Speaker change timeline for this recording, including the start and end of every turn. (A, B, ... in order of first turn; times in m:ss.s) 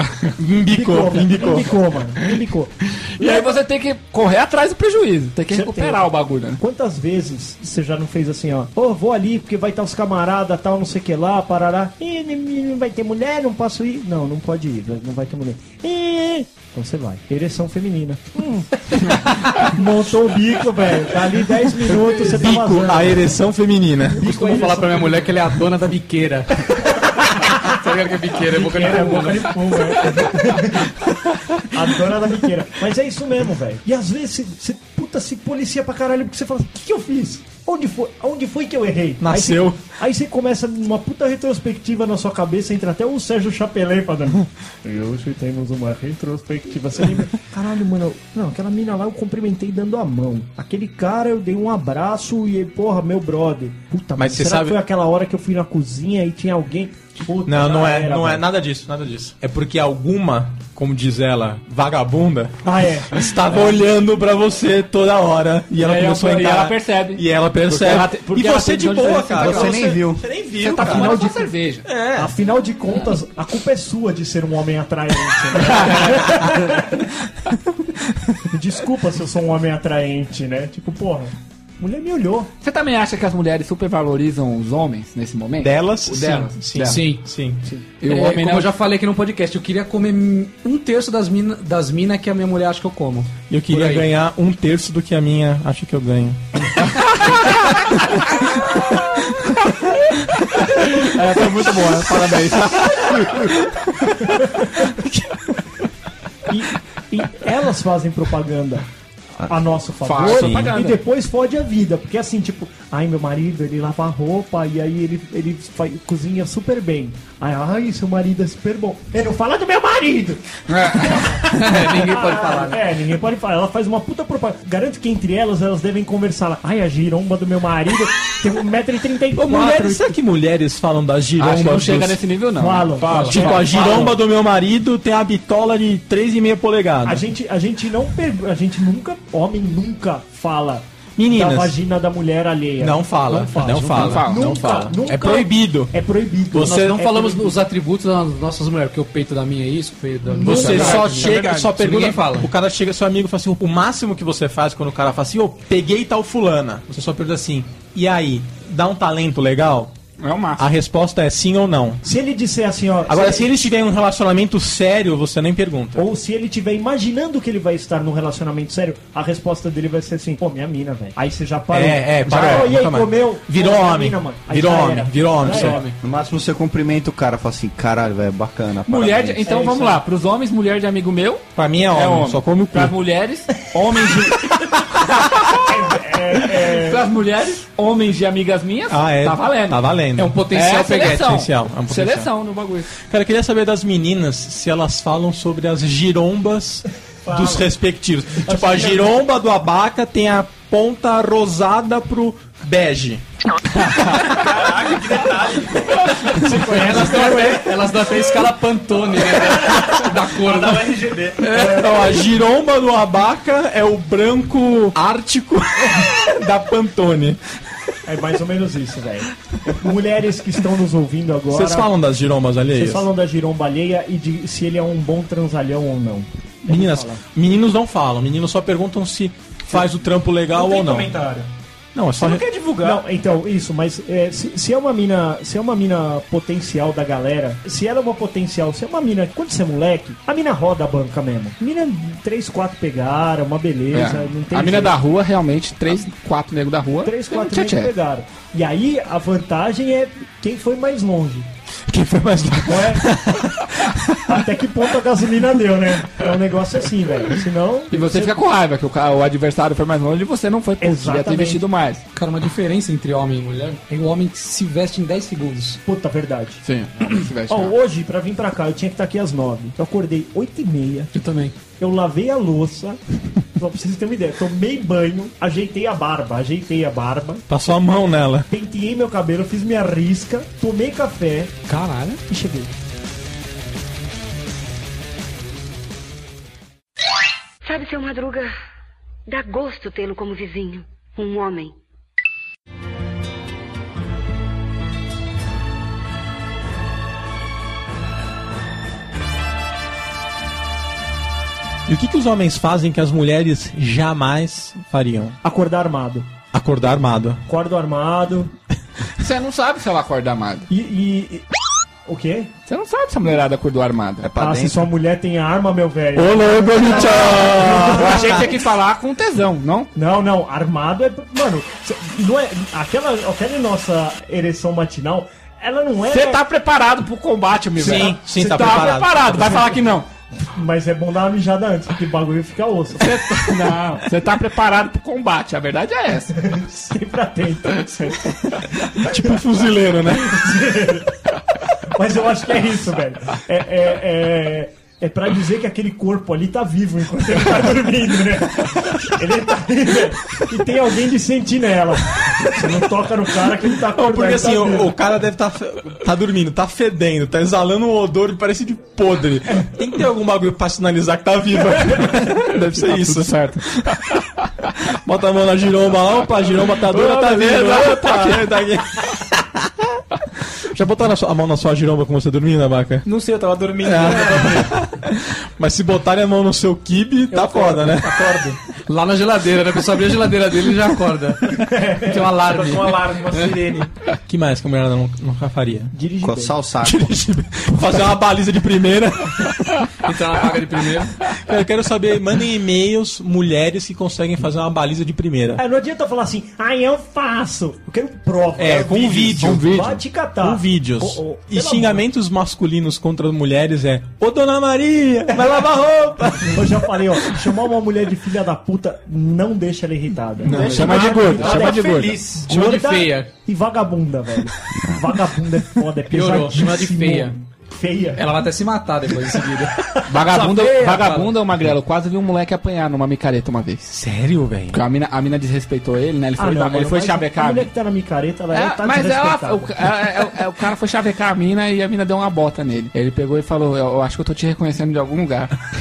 0:00.4-0:01.8 A
0:00.7-0:03.6 B
0:03.2-0:06.6 C
0:05.5-0:23.4 B
0:21.9-0:24.2 A
0:24.1-0:25.3 B
0:24.2-0:26.8 D
0:26.8-0:27.6 B
0:27.4-0:29.5 D
0:28.4-0:31.0 B
0:31.7-0:58.4 B
0:39.2-0:39.8 A
0:54.2-0:54.8 A
0:57.4-1:11.3 A
1:02.6-1:03.3 B
1:05.8-1:10.0 C
1:09.3-1:10.2 E
1:10.6-1:11.9 C
1:10.8-1:11.5 B
1:11.9-1:12.3 A
1:12.1-1:17.1 B
1:15.8-1:16.2 C
1:18.5-1:22.5 B
1:22.6-1:27.0 C
1:25.6-1:27.6 A
1:26.8-1:27.2 D
1:28.0-1:28.7 C
1:28.0-1:34.1 D
1:33.5-1:36.7 A
1:40.5-1:43.6 C
1:46.5-1:48.8 B
1:49.4-2:10.2 B
1:50.0-1:51.0 C
1:50.2-1:50.7 A
2:00.7-2:01.4 C
2:01.4-2:02.8 D
2:09.3-2:12.2 A
2:11.4-2:14.1 C
2:12.6-2:14.1 B
2:13.0-2:14.0 F
2:13.3-2:17.3 A
2:17.0-2:27.6 B
2:21.2-2:21.8 A
2:22.8-2:26.0 A
2:23.8-2:24.9 C
2:26.5-2:27.0 A
2:26.6-2:32.5 D
2:30.3-2:31.0 B
2:30.4-2:39.9 A
2:30.5-2:31.7 C
2:40.2-2:40.6 C
2:40.6-2:42.0 A
2:42.0-2:43.5 B
2:43.0-2:46.1 A
2:46.0-2:55.9 B
2:51.7-2:55.8 A
2:55.4-2:56.0 D
2:56.0-2:59.5 E
2:58.9-3:09.8 C
2:59.4-3:00.0 B
3:01.6-3:02.9 A
3:05.6-3:07.0 B
3:08.9-3:10.4 A
3:10.2-3:11.4 D
3:10.5-3:12.9 C
3:11.1-3:12.3 A
3:13.0-3:23.2 A
3:17.2-3:17.6 B
3:18.4-3:19.1 B
3:24.3-3:26.1 F
3:26.3-3:31.8 D
3:26.5-3:27.7 B
3:29.8-3:31.5 F
3:31.4-3:32.2 B
3:31.5-3:37.4 A
3:38.0-3:41.9 B
3:41.5-3:43.1 A
3:42.7-3:47.2 B
3:46.6-3:51.1 A
3:50.5-3:51.5 F
3:51.9-3:52.5 A
3:52.2-3:53.0 F
3:52.8-4:04.9 B
4:03.9-4:07.9 C
4:07.0-4:11.5 B
4:11.9-4:14.4 A
4:12.6-4:13.1 B
4:14.3-4:18.4 B
4:17.9-4:22.0 C
4:20.8-4:21.6 B
4:22.1-4:25.8 D
4:25.8-4:26.6 B
4:26.6-4:27.7 C
4:27.5-4:31.1 B
4:31.1-4:31.6 D
4:31.8-4:33.0 B
4:33.5-4:37.4 B
4:37.5-4:38.5 A
4:38.5-4:41.6 B
4:41.7-4:42.2 D
4:42.3-4:42.7 B
4:47.6-4:48.5 G
4:49.3-4:51.7 G
5:01.9-5:05.4 A
5:05.4-5:06.3 B
5:06.5-5:07.4 A
5:07.4-5:08.5 B
5:09.2-5:10.7 C
5:10.7-5:11.5 B
5:12.0-5:12.5 B
5:12.7-5:14.3 C
5:14.2-5:14.9 E
5:14.3-5:18.5 B
5:16.1-5:18.5 A
5:16.9-5:19.9 C
5:19.9-5:26.4 B
5:26.0-5:30.1 C
5:27.8-5:29.7 A
5:27.8-5:28.9 B
5:30.4-5:33.5 B
5:33.0-5:36.4 C
5:36.3-5:38.4 B
5:37.8-5:38.3 C
5:38.9-5:39.2 B
5:39.0-5:40.4 A
5:40.1-5:41.1 B
5:41.9-5:54.9 B
5:53.8-6:04.0 A
6:02.4-6:04.2 C
6:04.8-6:09.7 A
6:06.9-6:08.6 C
6:10.6-6:13.0 A
6:13.0-6:14.8 F
6:13.8-6:18.3 A
6:17.3-6:18.6 F
6:18.9-6:23.5 D
6:21.6-6:22.2 B
6:22.4-6:23.9 F
6:24.3-6:25.9 A
6:25.9-6:26.6 B
6:26.2-6:27.0 E
6:26.8-6:29.9 A
6:30.0-6:31.2 D
6:31.3-6:35.6 A
6:35.6-6:42.0 B
6:38.6-6:46.9 A
6:45.3-6:58.2 B
6:50.4-6:51.4 A
6:50.5-6:52.2 C
6:50.6-6:52.5 F
6:52.4-6:53.3 D
6:56.1-6:57.4 D
6:58.2-7:01.3 D
7:00.1-7:04.0 C
7:03.9-7:04.8 A
7:04.7-7:07.7 C
7:06.4-7:10.0 B
7:08.5-7:15.7 C